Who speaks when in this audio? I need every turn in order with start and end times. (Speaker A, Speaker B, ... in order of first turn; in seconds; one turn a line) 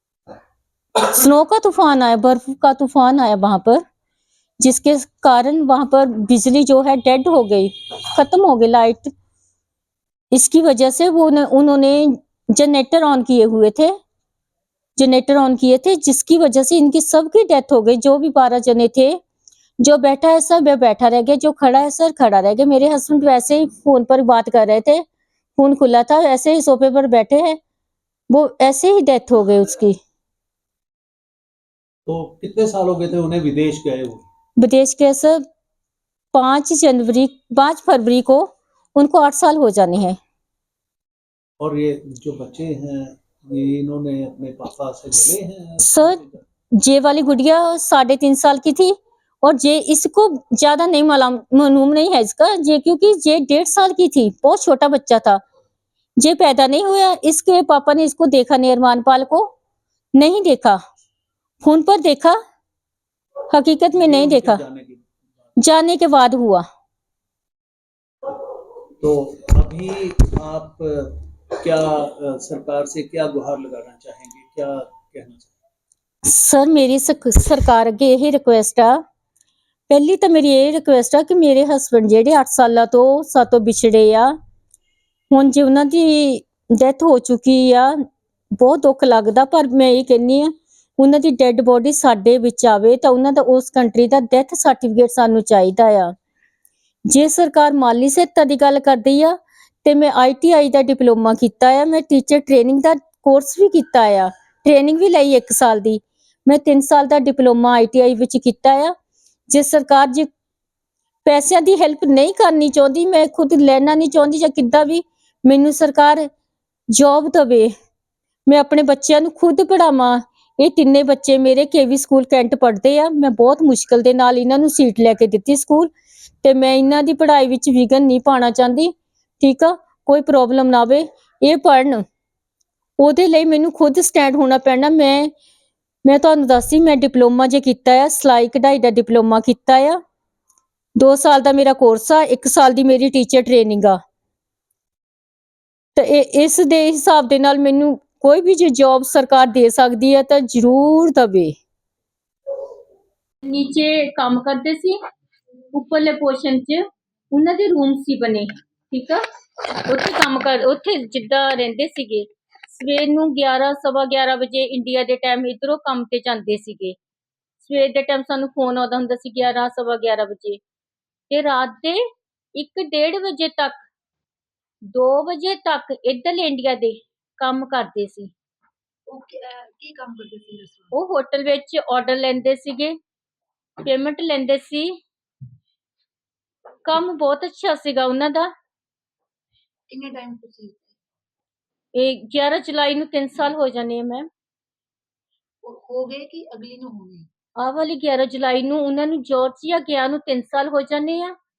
Speaker A: 1.0-3.8
Speaker A: 4.6-9.1
Speaker A: 10.3-13.9
Speaker A: 15.0-19.2
Speaker A: 19.8-25.0
Speaker A: 25.6-27.6
Speaker A: 28.3-30.0
Speaker B: 32.1-34.2
Speaker A: 34.6-35.4
Speaker A: 36.3-40.2
Speaker B: 41.6-46.4
Speaker A: 45.8-46.2
Speaker A: 46.8-55.4
Speaker A: 56.2-59.5
Speaker A: 60.2-60.8
Speaker A: 61.6-62.4
Speaker A: 63.5-64.6
Speaker B: 64.0-65.1
Speaker A: 65.6-66.6
Speaker B: 69.0-75.6
Speaker A: 76.3-79.0
Speaker A: 79.9-84.3
Speaker A: 85.3-87.9
Speaker A: 88.6-96.1
Speaker A: 97.1-108.9
Speaker A: 109.5-110.3
Speaker A: 111.2-116.3
Speaker A: 116.9-117.7
Speaker A: 118.5-125.9
Speaker A: 126.4-132.0
Speaker A: 133.0-135.3
Speaker A: 136.1-140.0
Speaker A: 141.0-144.0
Speaker A: 146.0-151.6
Speaker A: 153.4-155.0
Speaker A: 155.7-159.2
Speaker A: 159.9-167.0
Speaker A: 167.6-170.6
Speaker A: 171.3-172.0
Speaker A: 172.6-173.7
Speaker A: 174.9-178.3
Speaker C: 179.1-180.9
Speaker A: 180.9-182.9
Speaker A: 183.8-184.9
Speaker A: 186.8-188.5
Speaker C: 189.9-191.0
Speaker A: 191.9-194.3
Speaker C: 195.7-197.3
Speaker A: 197.6-201.3